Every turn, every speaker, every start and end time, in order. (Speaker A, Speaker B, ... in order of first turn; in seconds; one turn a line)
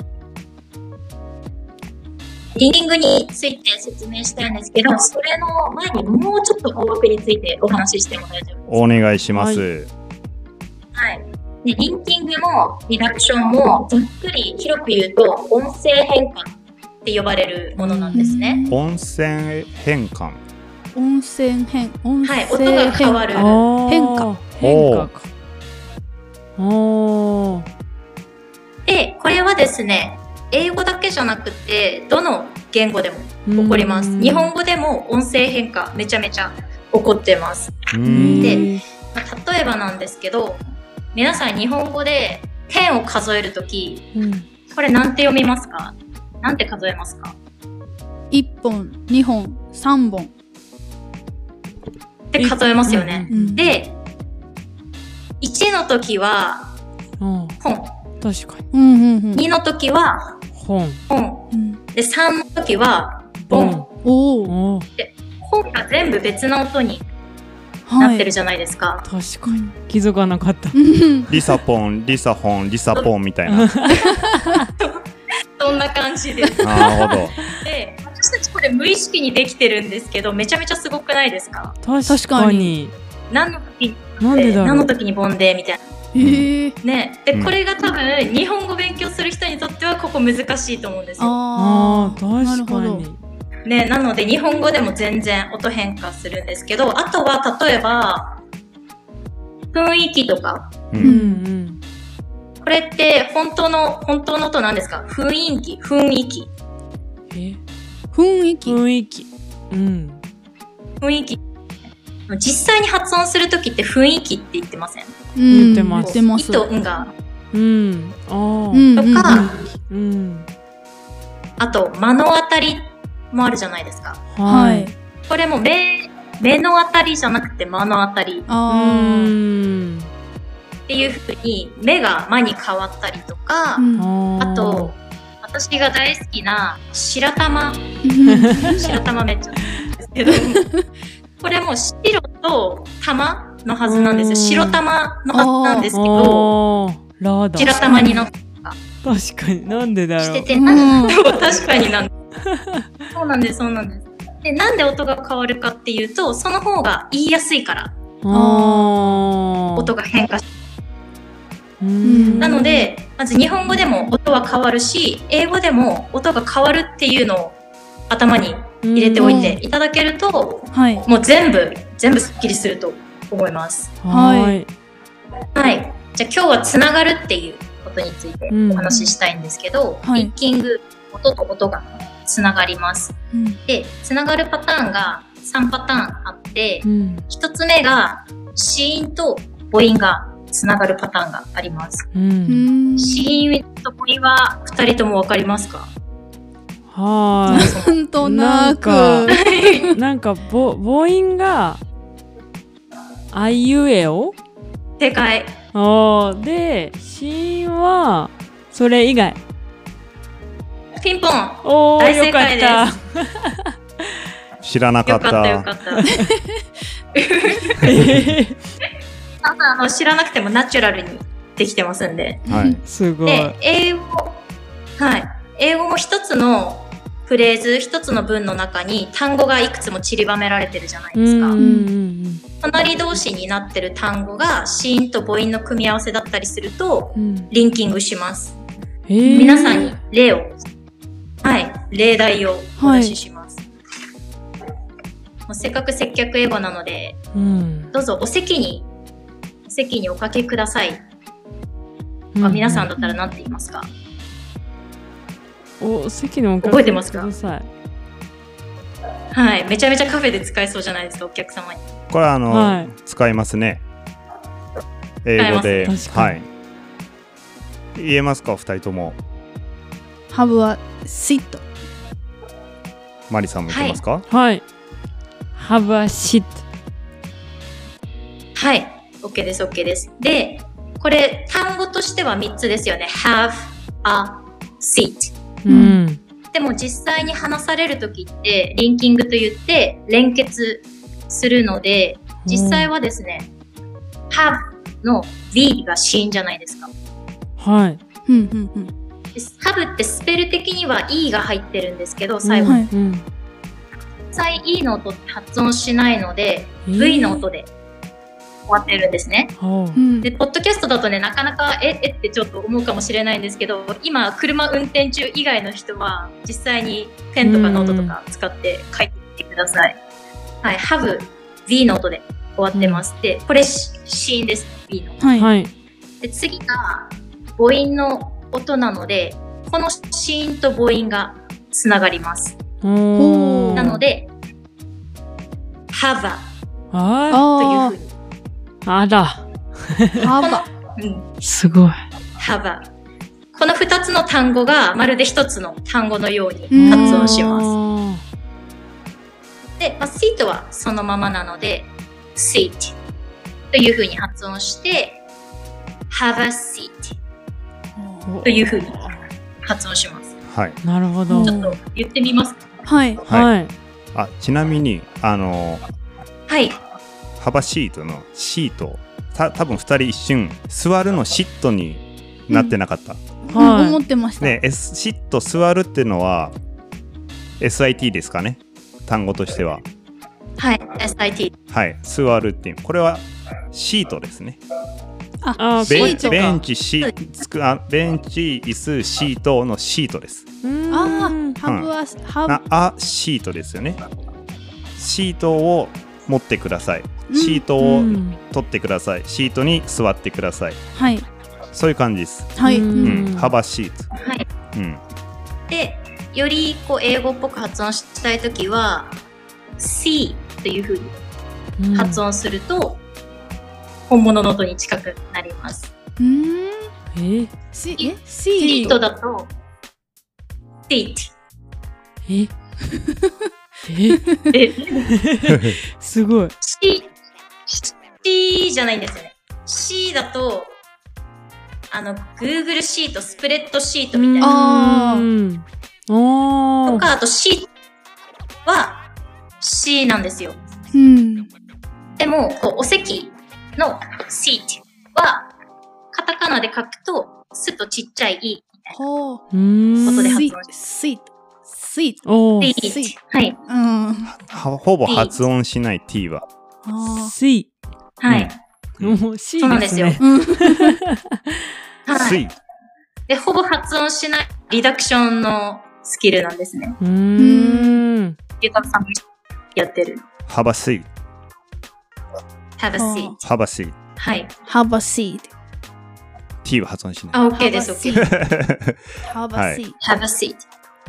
Speaker A: 2.5-8.8
Speaker B: 8.7-9.9
Speaker C: 9.3-9.6
Speaker A: 10.9-16.5
Speaker A: 17.0-18.6
Speaker C: 17.8-18.3
Speaker D: 18.1-18.8
Speaker B: 18.7-20.4
Speaker D: 20.9-24.3
Speaker A: 22.2-23.6
Speaker C: 23.3-25.3
Speaker B: 24.6-25.1
Speaker C: 26.6-27.6
Speaker A: 28.9-40.6
Speaker C: 33.5-34.5
Speaker B: 37.9-38.5
Speaker D: 38.0-38.7
Speaker C: 38.1-38.8
Speaker A: 41.1-44.1
Speaker C: 44.1-44.5
Speaker A: 44.7-47.3
Speaker D: 48.3-50.3
Speaker A: 52.3-54.0
Speaker C: 52.4-53.5
Speaker D: 53.3-53.7
Speaker A: 55.4-56.7
Speaker C: 57.2-57.6
Speaker A: 57.6-58.0
Speaker C: 58.2-58.6
Speaker D: 58.7-59.4
Speaker A: 59.3-60.4
Speaker C: 60.5-61.0
Speaker A: 61.1-63.9
Speaker D: 61.5-61.8
Speaker C: 63.4-63.9
Speaker D: 64.0-64.5
Speaker C: 64.4-64.9
Speaker A: 65.0-67.0
Speaker D: 67.9-68.3
Speaker A: 68.0-69.0
Speaker C: 69.0-70.8
Speaker D: 69.5-69.7
Speaker D: 70.7-71.3
Speaker B: 71.3-73.9
Speaker C: 73.5-74.7
Speaker D: 74.0-74.6
Speaker A: 74.8-76.9
Speaker B: 76.6-77.3
Speaker C: 76.8-77.2
Speaker A: 77.4-81.7
Speaker C: 81.8-82.9
Speaker D: 82.1-82.7
Speaker A: 83.3-85.8
Speaker C: 84.2-84.9
Speaker D: 86.1-86.8
Speaker B: 86.2-86.5
Speaker A: 86.8-91.3
Speaker D: 91.2-93.0
Speaker C: 91.5-93.2
Speaker A: 93.6-98.4
Speaker A: 99.7-100.7
Speaker B: 100.9-101.2
Speaker C: 101.0-101.8
Speaker D: 101.0-101.4
Speaker A: 102.6-106.5
Speaker C: 107.3-107.6
Speaker D: 108.1-108.8
Speaker C: 108.6-110.2
Speaker A: 111.0-111.4
Speaker A: 112.3-115.2
Speaker D: 115.3-116.7
Speaker C: 115.5-116.2
Speaker A: 116.0-117.1
Speaker C: 117.5-120.5
Speaker D: 118.7-119.5
Speaker A: 119.0-119.5
Speaker A: 121.6-124.2
Speaker C: 124.3-124.9
Speaker D: 124.4-124.9
Speaker A: 125.3-128.5
Speaker D: 128.5-129.3
Speaker C: 128.7-130.1
Speaker A: 130.9-133.8
Speaker D: 133.8-134.1
Speaker C: 134.0-134.9
Speaker A: 134.4-137.9
Speaker D: 138.0-138.9
Speaker C: 138.2-138.9
Speaker A: 138.7-140.7
Speaker D: 140.3-140.8
Speaker A: 141.4-146.5
Speaker C: 143.8-144.8
Speaker D: 145.3-145.9
Speaker C: 145.9-148.1
Speaker A: 147.6-148.8
Speaker C: 149.0-150.5
Speaker A: 150.2-152.1
Speaker D: 150.5-151.2
Speaker C: 152.4-152.8
Speaker A: 153.1-157.9
Speaker C: 158.2-159.9
Speaker D: 158.3-159.2
Speaker A: 159.8-160.5
Speaker C: 161.8-162.9
Speaker D: 162.0-162.6
Speaker A: 162.4-167.6
Speaker A: 168.1-173.9
Speaker C: 168.8-169.6
Speaker D: 169.2-169.6
Speaker D: 170.7-171.1
Speaker C: 174.0-174.7
Speaker D: 174.1-174.6
Speaker A: 175.5-183.1
Speaker C: 178.5-179.1
Speaker D: 180.0-180.3
Speaker D: 183.3-183.6
Speaker A: 183.7-192.1
Speaker C: 186.8-187.2
Speaker C: 192.1-192.7
Speaker D: 192.5-193.3
Speaker A: 193.0-195.9
Speaker C: 196.9-199.4
Speaker D: 197.5-200.0
Speaker A: 197.5-198.0
Speaker A: 199.4-199.9
Speaker C: 199.9-201.8
Speaker C: 203.3-204.3
Speaker A: 205.0-205.5
Speaker C: 205.7-209.4
Speaker A: 211.0-212.8
Speaker C: 211.6-213.7
Speaker B: 214.6-215.7
Speaker A: 215.1-216.1
Speaker C: 216.0-216.3
Speaker A: 217.1-217.9
Speaker C: 217.7-218.6
Speaker A: 219.4-222.4
Speaker D: 222.4-222.8
Speaker B: 222.5-222.8
Speaker C: 222.8-223.5
Speaker A: 223.2-224.4
Speaker A: 225.0-231.6
Speaker C: 231.2-232.4
Speaker D: 231.6-231.9
Speaker A: 232.6-238.6
Speaker C: 237.2-237.5
Speaker C: 239.1-239.9
Speaker D: 239.2-239.9
Speaker A: 239.3-240.7
Speaker A: 241.4-243.6
Speaker D: 242.8-243.2
Speaker A: 245.5-247.2
Speaker C: 247.3-247.9
Speaker A: 247.9-248.9
Speaker A: 249.7-251.0
Speaker C: 252.3-252.9
Speaker A: 252.4-253.9
Speaker C: 255.8-257.7
Speaker A: 256.6-257.3
Speaker A: 259.3-261.9
Speaker B: 262.1-263.8
Speaker C: 262.5-262.9
Speaker B: 265.2-266.5
Speaker A: 265.4-266.0
Speaker C: 265.9-266.4
Speaker B: 267.9-269.2
Speaker D: 270.3-271.6
Speaker B: 273.3-274.2
Speaker A: 273.7-274.0
Speaker C: 274.3-274.6
Speaker C: 275.5-276.6
Speaker A: 278.5-285.3
Speaker C: 285.6-286.2
Speaker D: 285.7-286.0
Speaker A: 286.5-293.5
Speaker C: 292.4-292.9
Speaker A: 294.3-296.9
Speaker C: 297.6-298.0
Speaker D: 298.3-298.9
Speaker A: 299.3-302.8
Speaker C: 302.4-303.2
Speaker A: 304.3-307.7
Speaker C: 306.9-307.4
Speaker A: 308.7-309.5
Speaker C: 309.6-310.0
Speaker D: 309.9-310.3
Speaker A: 310.2-320.0
Speaker C: 317.4-318.1
Speaker A: 320.6-325.2
Speaker C: 322.7-323.0
Speaker D: 325.2-325.5
Speaker C: 325.4-325.7
Speaker A: 326.2-332.6
Speaker C: 332.8-334.0
Speaker D: 333.1-334.0
Speaker A: 333.8-334.3
Speaker A: 335.9-336.5
Speaker C: 336.9-337.4
Speaker D: 337.3-337.9
Speaker A: 337.5-338.1
Speaker C: 338.8-340.3
Speaker D: 340.2-340.6
Speaker A: 340.4-341.3
Speaker C: 341.4-342.0
Speaker A: 342.4-342.9
Speaker A: 343.5-347.7
Speaker D: 346.7-347.4
Speaker C: 346.7-348.2
Speaker A: 349.8-352.9
Speaker A: 353.7-355.2
Speaker A: 356.1-357.1
Speaker D: 358.0-358.2
Speaker C: 358.2-359.2
Speaker A: 358.4-360.4
Speaker B: 360.4-360.8
Speaker C: 360.8-361.7
Speaker D: 361.3-361.6
Speaker A: 361.4-362.7
Speaker D: 362.8-363.2
Speaker B: 363.2-363.5
Speaker C: 363.3-363.7
Speaker B: 364.1-365.8
Speaker A: 366.5-366.8
Speaker B: 367.4-373.2
Speaker D: 373.5-374.6
Speaker C: 373.5-374.0
Speaker B: 374.4-376.5
Speaker B: 377.6-379.8
Speaker A: 380.6-381.5
Speaker B: 381.7-384.6
Speaker D: 385.4-386.6
Speaker C: 385.6-386.5
Speaker B: 385.8-390.4
Speaker C: 390.6-391.6
Speaker D: 390.9-392.6
Speaker B: 391.6-391.9
Speaker B: 392.4-394.0
Speaker B: 394.9-400.8
Speaker D: 397.3-397.7
Speaker C: 397.8-398.4
Speaker D: 400.9-401.2
Speaker B: 401.7-404.1
Speaker D: 402.6-403.2
Speaker C: 402.6-403.5
Speaker A: 404.1-404.4
Speaker B: 404.7-405.0
Speaker A: 405.7-409.1
Speaker A: 409.8-411.1
Speaker C: 411.8-412.2
Speaker A: 411.9-413.0
Speaker A: 414.1-415.9
Speaker D: 416.2-416.9
Speaker C: 417.1-417.5
Speaker D: 417.7-419.0
Speaker A: 418.0-419.5
Speaker A: 420.9-421.3
Speaker C: 422.2-422.5
Speaker C: 423.9-426.5
Speaker A: 424.5-425.1
Speaker B: 425.5-425.8
Speaker A: 426.6-427.1
Speaker A: 427.7-430.8
Speaker A: 431.9-434.6
Speaker C: 434.1-437.1
Speaker D: 434.4-435.2
Speaker A: 436.9-437.7
Speaker A: 438.6-439.0
Speaker A: 439.6-440.6
Speaker D: 440.9-441.5
Speaker A: 442.2-445.5
Speaker A: 446.1-448.9
Speaker D: 448.9-449.4
Speaker C: 449.5-450.4
Speaker D: 450.0-453.1
Speaker A: 450.0-450.7
Speaker C: 452.2-452.7
Speaker A: 452.6-453.6
Speaker D: 453.7-454.3
Speaker B: 454.3-456.4
Speaker A: 455.1-455.4
Speaker D: 456.8-457.3
Speaker C: 457.0-457.7
Speaker A: 458.2-458.6
Speaker B: 458.3-459.2
Speaker C: 459.0-461.1
Speaker A: 459.6-460.2
Speaker D: 460.2-461.0
Speaker A: 462.1-462.4
Speaker B: 462.1-462.5
Speaker A: 463.3-467.0
Speaker C: 467.0-468.4
Speaker D: 467.4-468.0
Speaker A: 468.6-470.2
Speaker B: 470.5-471.1
Speaker A: 472.8-473.4
Speaker D: 473.0-473.4
Speaker B: 473.4-473.9
Speaker A: 474.2-474.5
Speaker D: 474.7-475.5
Speaker B: 476.6-477.4
Speaker A: 477.3-478.3
Speaker D: 477.5-478.2
Speaker B: 478.1-479.0
Speaker D: 479.2-480.0
Speaker B: 479.5-479.8
Speaker A: 480.0-480.6